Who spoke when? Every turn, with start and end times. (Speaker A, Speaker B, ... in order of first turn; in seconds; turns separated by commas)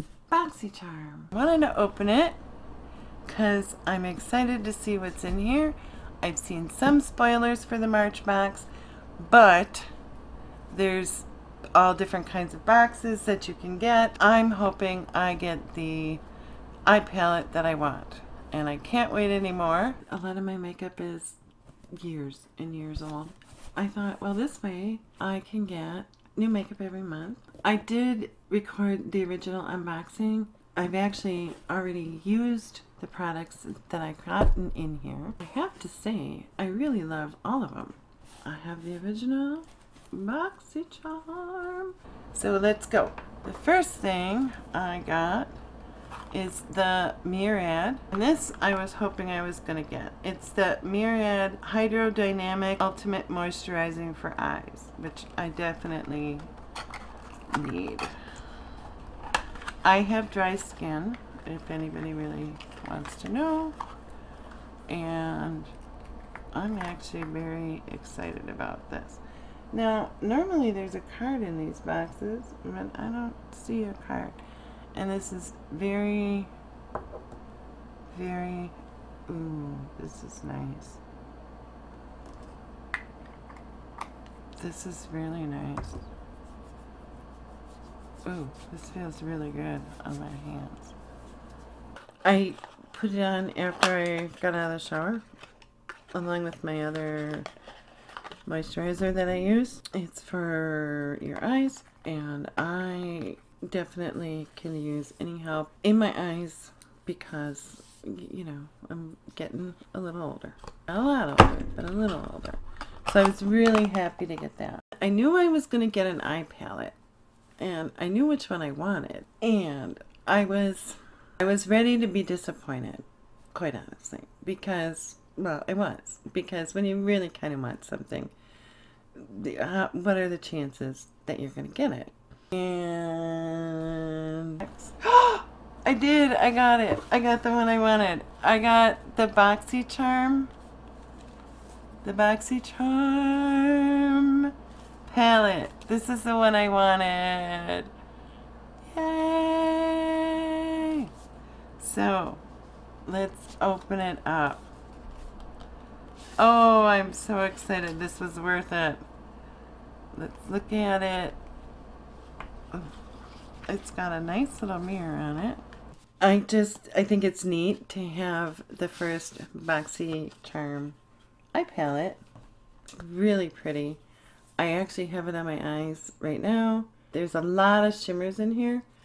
Speaker A: 0.3-2.4, Speaker A: 3.2-9.9, Speaker A: 10.7-16.2, Speaker A: 16.9-21.4, Speaker A: 21.9-45.5, Speaker A: 46.3-56.5, Speaker A: 57.5-58.2, Speaker A: 59.8-63.8, Speaker A: 64.9-65.7, Speaker A: 66.5-74.4, Speaker A: 74.9-76.5, Speaker A: 78.1-78.8, Speaker A: 79.3-81.0, Speaker A: 84.5-86.0, Speaker A: 88.2-90.9, Speaker A: 92.2-95.2, Speaker A: 96.1-97.5, Speaker A: 98.4-117.0, Speaker A: 117.6-128.3, Speaker A: 129.1-140.5, Speaker A: 142.0-144.5, Speaker A: 145.0-147.9, Speaker A: 148.8-151.1, Speaker A: 151.8-152.4, Speaker A: 153.1-154.6, Speaker A: 156.4-159.0, Speaker A: 160.1-161.4, Speaker A: 163.7-165.6, Speaker A: 166.2-171.0, Speaker A: 171.5-172.2, Speaker A: 172.9-174.0, Speaker A: 174.6-178.8